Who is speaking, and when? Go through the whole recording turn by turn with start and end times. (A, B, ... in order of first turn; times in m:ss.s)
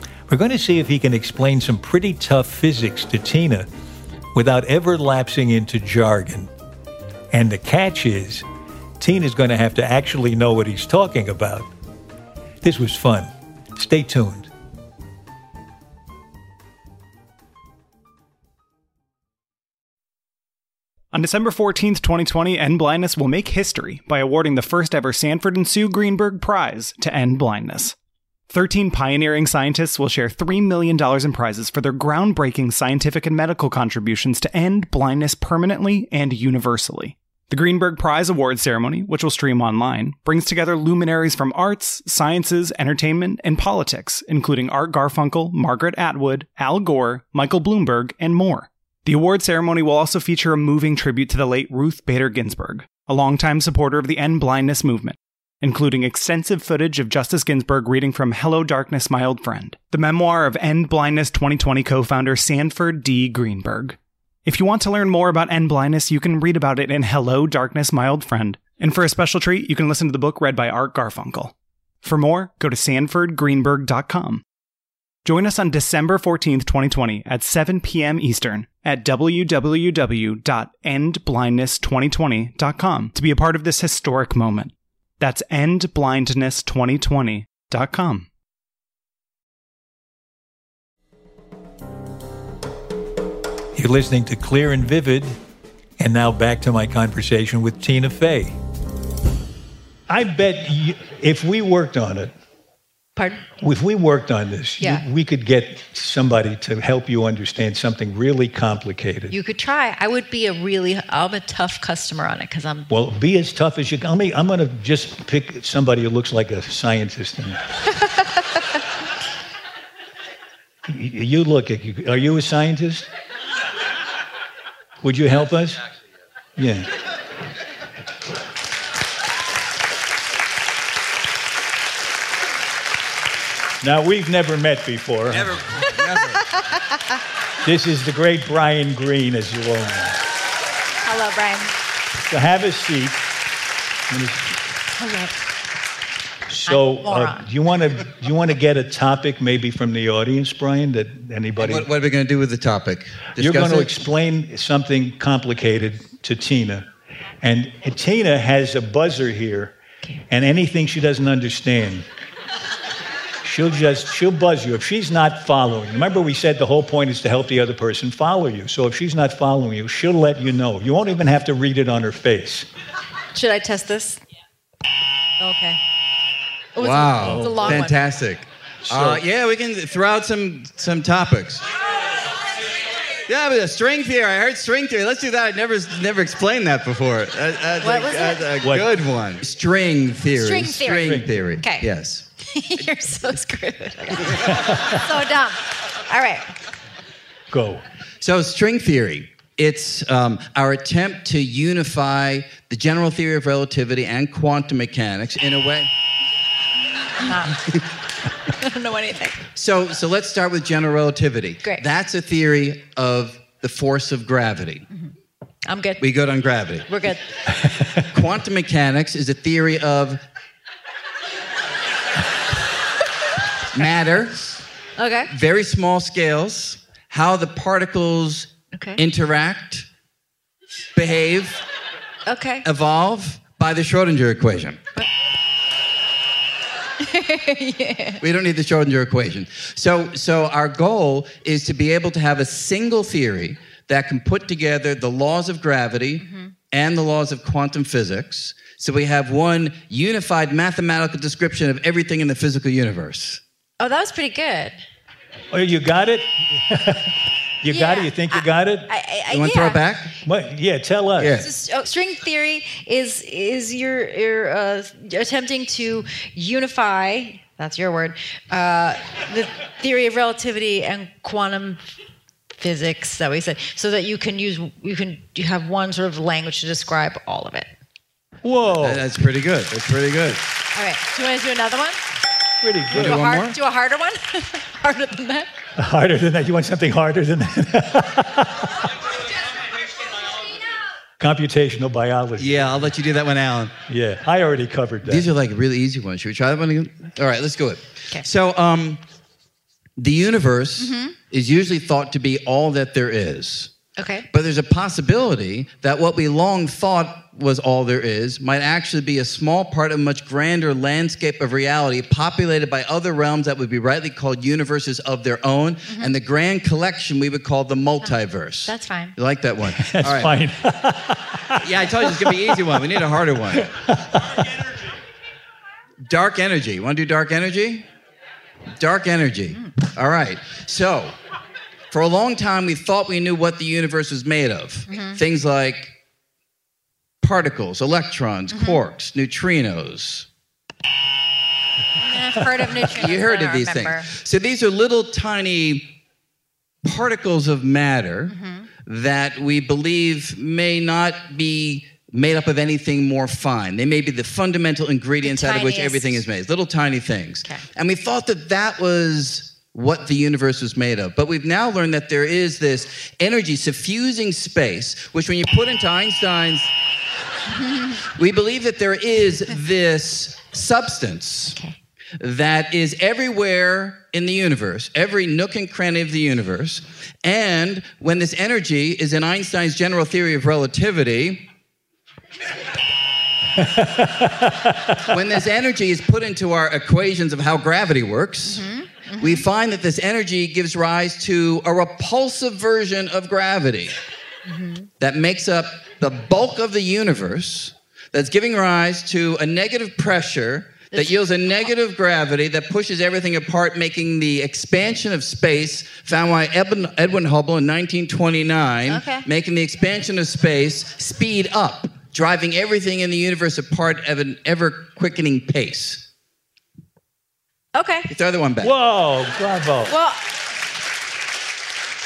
0:00.3-0:03.7 A
0:04.3-0:06.5 A
0:07.3-0:08.4 A
0:09.0-0:11.7 A
0:12.6-0:14.5 A
0:21.1-0:27.9 B
0:28.5-1:14.4 B
1:15.2-1:28.3 B
1:33.7-1:35.4 A
1:36.0-1:38.6 A
1:40.1-1:42.3 C
1:43.2-1:43.4 D
1:43.6-1:49.3 C
1:49.3-1:52.9 D
1:52.9-1:57.6 C
2:00.8-2:03.1 C
2:05.0-2:05.8 C
2:06.6-2:06.9 C
2:13.8-2:15.6 C
2:15.3-2:16.4 E
2:16.6-2:17.0 D
2:17.6-2:20.2 C
2:21.0-2:21.7 D
2:22.2-2:23.2 C
2:24.1-2:24.6 C
2:25.0-2:25.3 D
2:26.5-2:31.9 C
2:26.7-2:27.5 D
2:31.6-2:33.9 E
2:33.4-2:36.9 C
2:37.4-2:39.8 C
2:40.3-2:42.1 C
2:43.4-2:52.7 C
2:53.3-2:54.2 D
2:55.4-2:55.8 D
2:56.7-2:58.0 D
2:56.8-3:01.7 E
2:57.2-2:57.8 C
2:58.8-2:59.2 C
3:03.3-3:12.2 E
3:07.8-3:08.5 D
3:08.6-3:08.9 C
3:10.3-3:11.9 D
3:11.0-3:11.3 C
3:12.4-3:16.6 D
3:14.3-3:15.0 C
3:17.5-3:17.8 C
3:18.2-3:25.9 E
3:27.2-3:27.6 D
3:28.5-3:29.4 D
3:29.6-3:34.9 E
3:35.6-3:36.0 D
3:36.0-3:36.9 E
3:36.9-3:37.2 D
3:37.9-3:40.2 E
3:43.7-3:44.4 E
3:45.0-3:45.3 D
3:45.3-3:49.8 E
3:48.7-3:49.0 D
3:50.9-3:51.6 E
3:52.2-3:52.6 D
3:52.6-3:54.8 E
3:57.0-3:58.2 D
3:58.2-4:13.4 E
4:06.2-4:06.5 D
4:13.8-4:14.8 D
4:15.5-4:18.9 C
4:17.6-4:19.8 D
4:19.3-4:20.2 E
4:20.2-4:21.5 C
4:21.2-4:21.5 E
4:21.4-4:31.9 D
4:32.6-4:37.7 D
4:38.4-4:39.0 C
4:38.7-4:40.4 E
4:40.7-4:42.0 D
4:42.6-4:43.6 C
4:42.9-4:45.5 D
4:45.8-4:48.9 C
4:51.2-4:52.8 C
4:52.4-4:53.8 E
4:53.9-4:55.3 C
4:55.0-4:59.0 E
5:00.0-5:03.7 E
5:00.8-5:01.1 D
5:04.0-5:04.3 D
5:04.3-5:20.3 E
5:18.6-5:19.1 D
5:19.7-5:22.9 C
5:21.6-5:23.7 E
5:23.5-5:24.6 C
5:26.0-5:27.9 E
5:28.8-5:31.2 E
5:31.9-5:35.9 E
5:34.9-5:35.2 D
5:37.2-5:40.3 E
5:38.5-5:38.8 D
5:42.0-5:44.1 D
5:42.9-5:45.9 E
5:46.8-6:06.7 E
5:48.3-5:48.7 D
5:55.2-5:56.2 D
6:08.1-6:11.6 E
6:12.2-6:21.4 E
6:23.6-6:25.1 C
6:25.0-6:28.6 E
6:28.5-6:29.4 D
6:29.2-6:34.0 E
6:34.5-6:34.9 D
6:35.0-6:56.0 E
6:48.9-6:49.2 D
6:57.7-6:58.1 D
6:58.1-6:58.7 E
6:58.6-6:59.9 C
6:59.9-7:00.2 D